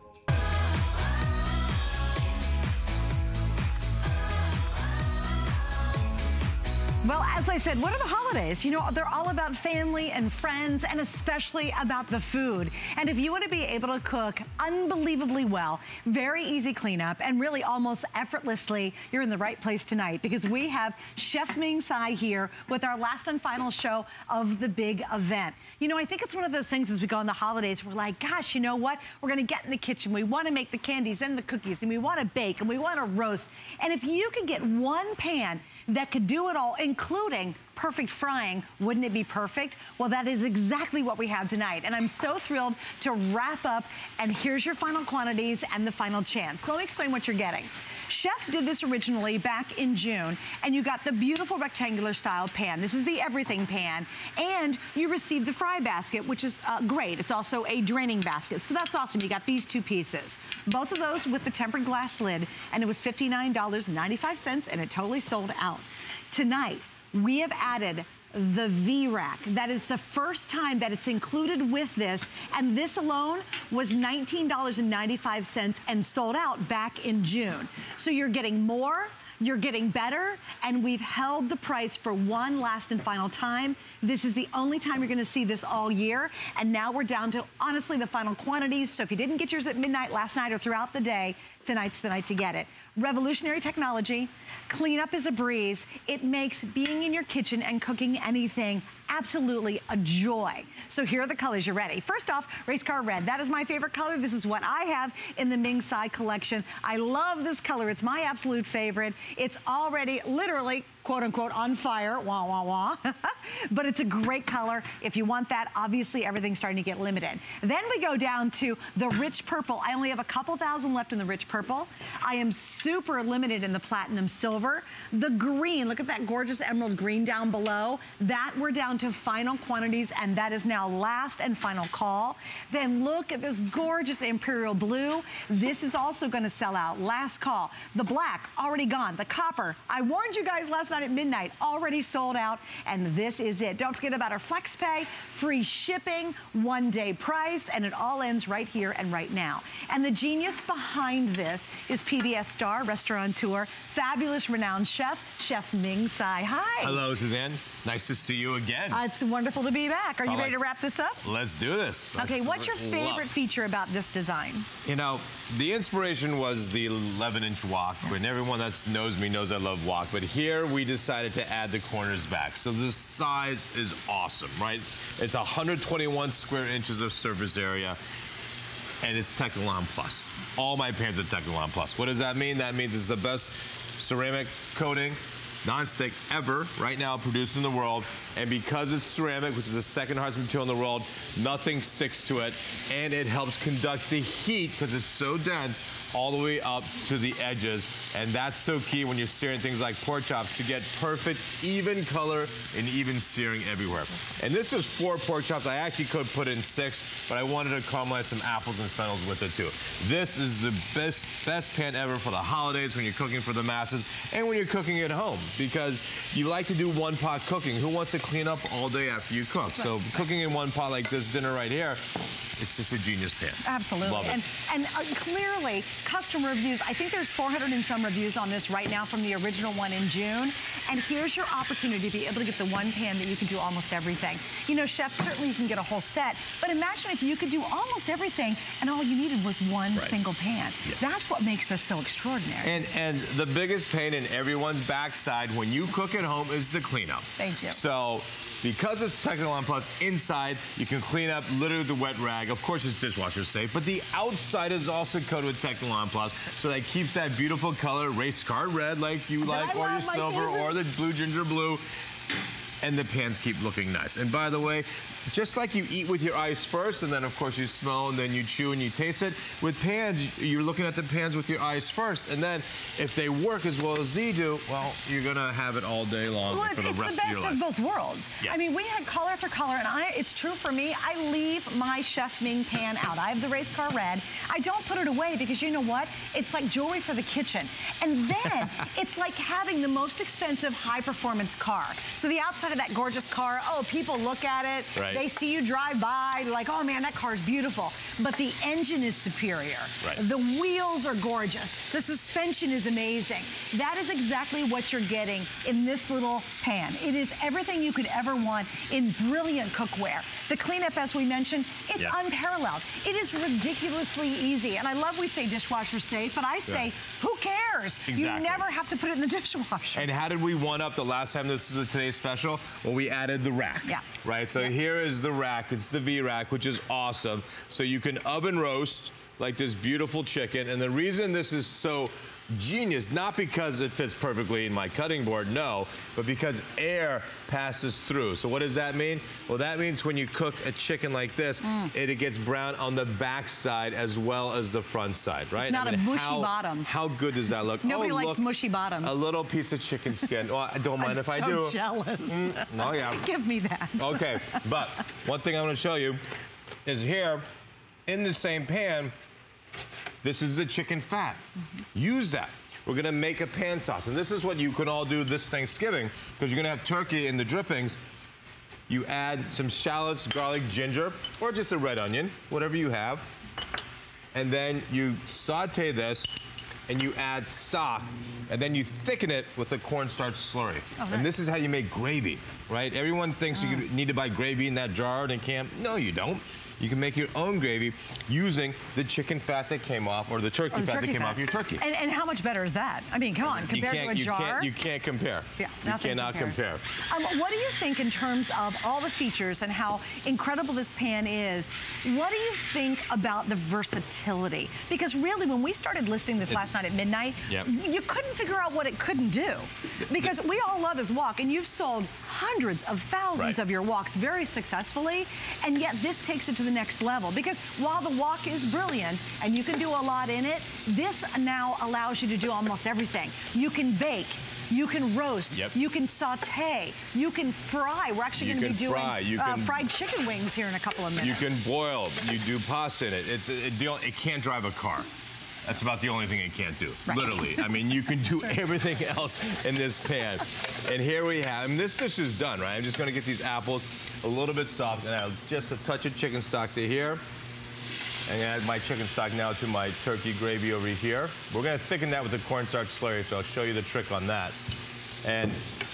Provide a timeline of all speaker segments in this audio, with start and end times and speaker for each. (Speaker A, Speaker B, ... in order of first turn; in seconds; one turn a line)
Speaker A: 7.0-157.0
Speaker B: 156.8-159.0
Speaker A: 158.9-161.2
Speaker B: 160.2-160.6
Speaker B: 161.2-163.3
Speaker A: 162.2-164.7
Speaker B: 164.8-178.0
Speaker B: 179.0-224.4
Speaker A: 223.6-242.8
Speaker B: 242.6-261.8
Speaker A: 247.4-247.8
Speaker A: 259.4-260.8
Speaker B: 262.8-277.6
Speaker A: 276.5-320.1
Speaker B: 294.9-295.2
Speaker B: 318.1-318.7
Speaker B: 319.9-348.4
Speaker A: 341.6-341.9
Speaker A: 345.6-346.9
Speaker A: 347.8-349.2
Speaker B: 349.0-353.2
Speaker A: 351.0-354.6
Speaker B: 354.0-356.2
Speaker B: 356.9-357.5
Speaker B: 358.1-359.1
Speaker B: 360.2-361.4
Speaker B: 361.9-368.0
Speaker B: 368.9-373.3
Speaker B: 374.3-376.3
Speaker B: 376.9-391.8
Speaker A: 381.0-381.3
Speaker A: 390.7-394.7
Speaker B: 393.4-396.9
Speaker A: 395.6-431.5
Speaker B: 428.4-429.9
Speaker B: 431.2-435.1
Speaker B: 435.6-447.2
Speaker A: 437.1-437.6
Speaker B: 448.2-454.6
Speaker B: 455.2-455.6